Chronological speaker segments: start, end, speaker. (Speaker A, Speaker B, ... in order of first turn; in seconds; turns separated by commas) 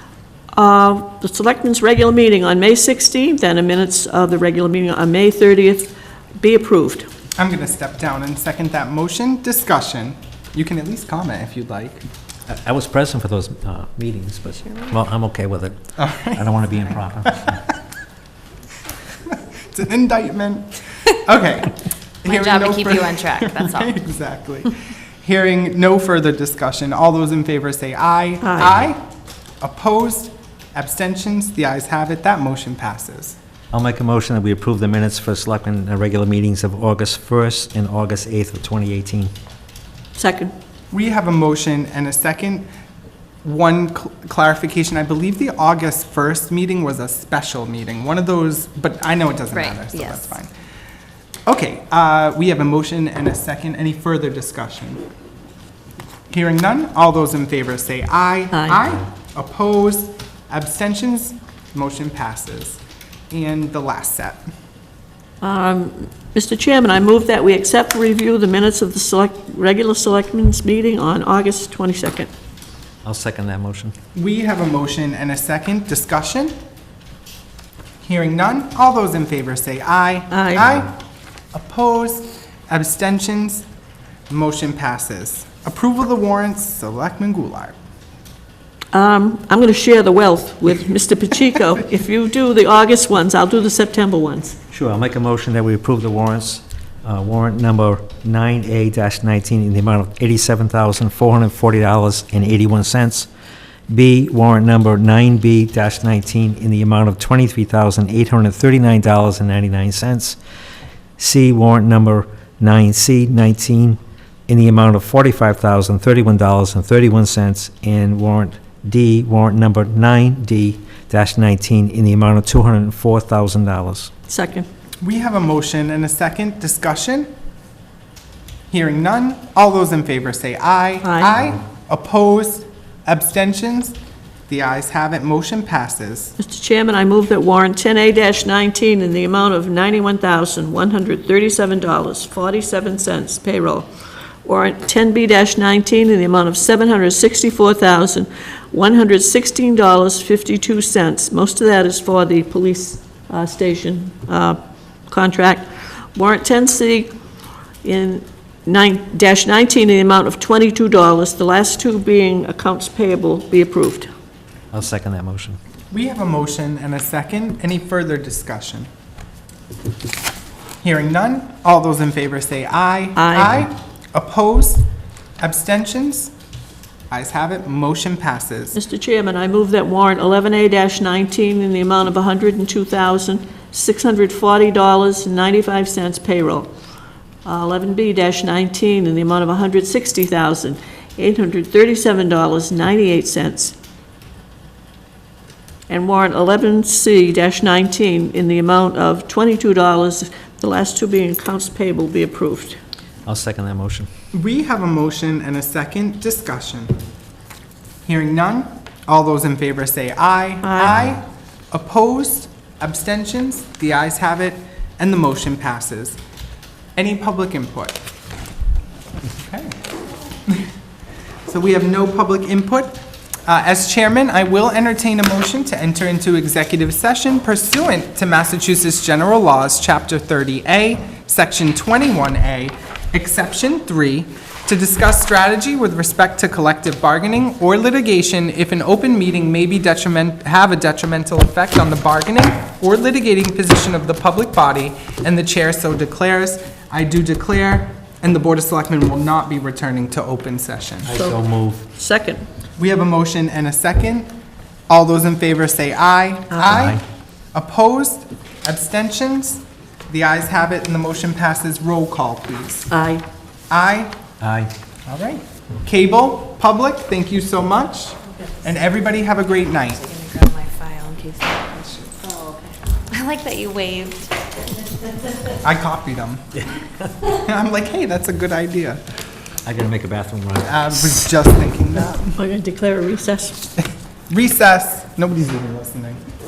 Speaker A: 0.5-7.1, Speaker B: 7.3-12.0, Speaker C: 12.5-15.8, Speaker B: 16.0-16.6, Speaker C: 16.3-17.6, Speaker B: 19.3-29.0, Speaker D: 22.2-23.9, Speaker A: 28.4-28.7, Speaker B: 29.6-33.4, Speaker C: 33.7-39.3, Speaker A: 40.2-40.5, Speaker B: 40.9-42.7, Speaker B: 43.4-50.5, Speaker D: 49.5-50.3, Speaker B: 51.5-55.0, Speaker B: 56.3-64.4, Speaker A: 58.5-58.8, Speaker A: 65.4-72.3, Speaker C: 73.0-73.9, Speaker B: 74.1-76.5, Speaker B: 78.0-80.9, Speaker A: 80.3-80.7, Speaker B: 81.5-83.7, Speaker B: 84.3-87.7, Speaker A: 88.9-94.6, Speaker C: 94.7-103.3, Speaker C: 103.9-110.4, Speaker C: 111.2-124.1, Speaker A: 124.3-124.7, Speaker B: 125.0-127.3, Speaker B: 128.7-134.0, Speaker A: 131.0-131.3, Speaker B: 134.5-136.3, Speaker A: 136.4-143.9, Speaker A: 144.4-154.6, Speaker A: 155.1-157.1, Speaker A: 157.8-164.1, Speaker C: 164.7-165.6, Speaker B: 165.9-168.9, Speaker B: 170.8-174.8, Speaker A: 173.2-173.5, Speaker B: 175.4-176.3, Speaker B: 177.1-178.8, Speaker A: 178.8-186.7, Speaker A: 187.4-193.7, Speaker A: 195.9-202.8, Speaker C: 203.2-204.1, Speaker B: 204.3-206.9, Speaker B: 208.1-216.2, Speaker A: 210.6-210.9, Speaker B: 216.9-218.0, Speaker B: 219.3-219.8, Speaker B: 221.5-251.2, Speaker C: 251.1-251.8, Speaker A: 251.1-251.4, Speaker A: 251.9-252.4, Speaker B: 252.8-254.3, Speaker B: 254.9-257.0, Speaker C: 256.7-257.0, Speaker B: 257.5-262.9, Speaker A: 262.9-263.2, Speaker B: 263.7-264.1, Speaker C: 264.4-264.7, Speaker B: 265.1-270.0, Speaker D: 269.9-274.3, Speaker B: 275.6-276.6, Speaker B: 277.3-279.0, Speaker C: 279.6-281.3, Speaker B: 280.6-282.4, Speaker A: 281.9-283.6, Speaker B: 283.8-286.2